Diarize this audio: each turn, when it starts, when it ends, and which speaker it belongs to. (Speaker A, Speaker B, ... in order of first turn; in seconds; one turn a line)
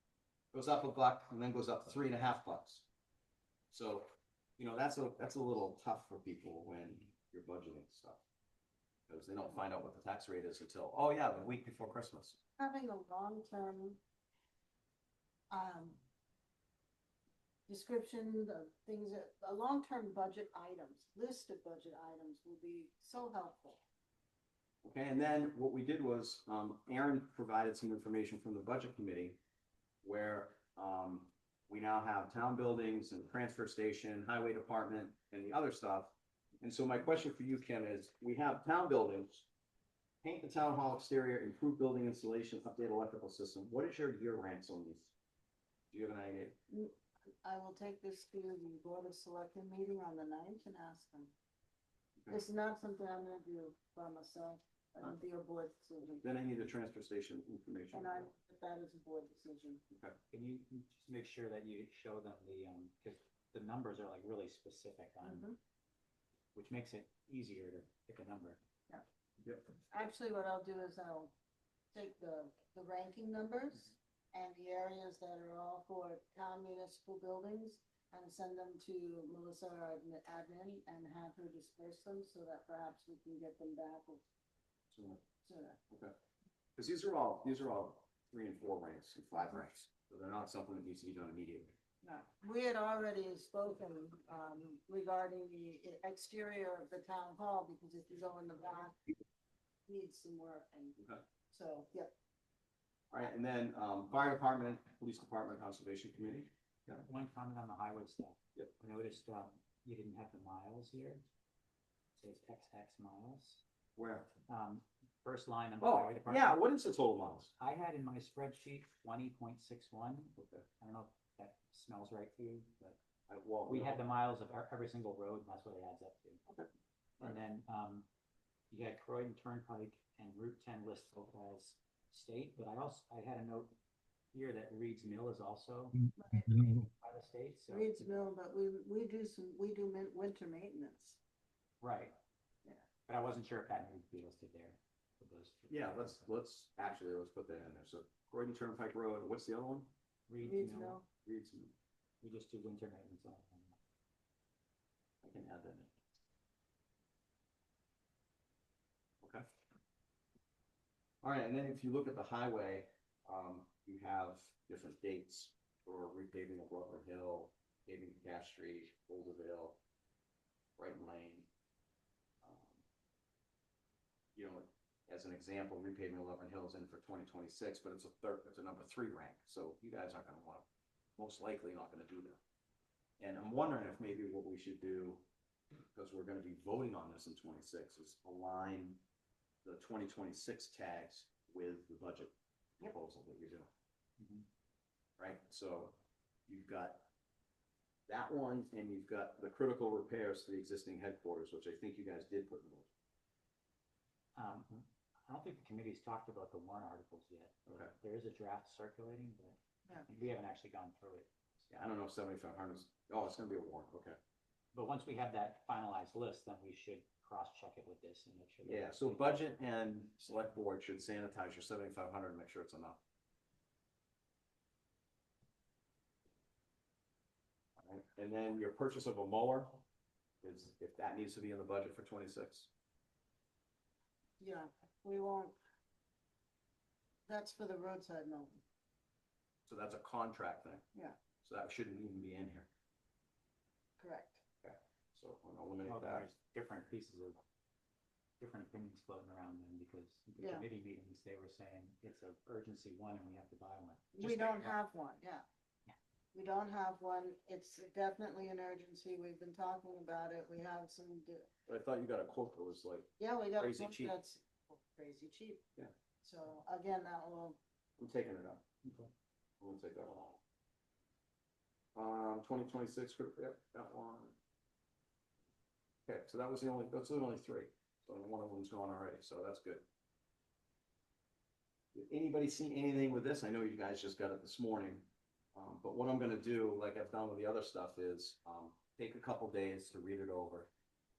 Speaker A: 0.5-2.9
Speaker A: 3.7-8.2
Speaker A: 9.1-12.4
Speaker B: 12.6-14.0
Speaker B: 15.5-16.0
Speaker B: 17.7-23.8
Speaker A: 24.8-29.4
Speaker A: 30.0-39.5
Speaker A: 40.2-45.1
Speaker A: 45.9-46.5
Speaker B: 46.7-51.3
Speaker B: 52.3-56.2
Speaker A: 56.2-58.3
Speaker B: 57.9-59.8
Speaker C: 60.3-65.5
Speaker B: 65.2-65.6
Speaker C: 66.5-68.6
Speaker A: 69.4-69.7
Speaker B: 69.9-71.3
Speaker B: 71.9-84.2
Speaker A: 84.9-85.2
Speaker B: 85.4-85.8
Speaker A: 86.8-91.7
Speaker B: 92.0-99.0
Speaker B: 99.9-101.0
Speaker A: 101.0-101.2
Speaker B: 101.5-102.1
Speaker A: 103.1-107.0
Speaker C: 107.0-111.2
Speaker C: 112.2-113.6
Speaker A: 114.0-114.3
Speaker C: 114.5-116.6
Speaker A: 115.8-117.5
Speaker C: 117.6-123.0
Speaker A: 120.3-120.7
Speaker A: 123.3-124.0
Speaker C: 123.7-126.4
Speaker C: 127.2-128.1
Speaker C: 128.7-133.8
Speaker C: 134.3-136.0
Speaker B: 136.2-136.8
Speaker C: 136.6-137.9
Speaker B: 137.7-141.2
Speaker C: 141.8-142.1
Speaker C: 143.1-146.2
Speaker A: 145.7-149.9
Speaker C: 150.3-151.0
Speaker B: 150.4-151.1
Speaker A: 151.2-151.7
Speaker C: 152.2-153.8
Speaker A: 155.2-155.9
Speaker A: 161.2-169.8
Speaker A: 170.8-171.5
Speaker A: 172.4-172.8
Speaker A: 174.3-182.4
Speaker A: 183.2-185.2
Speaker A: 185.9-189.0
Speaker A: 189.6-193.7
Speaker C: 194.2-194.4
Speaker A: 195.2-197.1
Speaker A: 198.1-202.9
Speaker C: 204.3-211.3
Speaker A: 207.7-207.9
Speaker A: 211.7-214.2
Speaker C: 214.7-219.5
Speaker A: 218.6-223.0
Speaker A: 227.8-229.8
Speaker A: 230.4-232.7
Speaker B: 234.4-235.6
Speaker B: 237.3-238.6
Speaker A: 239.7-240.8
Speaker A: 241.4-242.7
Speaker B: 244.0-244.4
Speaker A: 244.6-246.3
Speaker C: 245.8-247.4
Speaker C: 248.4-254.8
Speaker B: 250.4-250.7
Speaker B: 254.1-255.4
Speaker B: 256.3-261.5
Speaker A: 261.7-264.1
Speaker B: 263.2-265.6
Speaker B: 266.2-267.6
Speaker A: 268.0-268.6
Speaker C: 268.8-269.1
Speaker A: 269.6-270.4
Speaker A: 271.9-274.4
Speaker A: 276.1-279.8
Speaker A: 281.9-290.7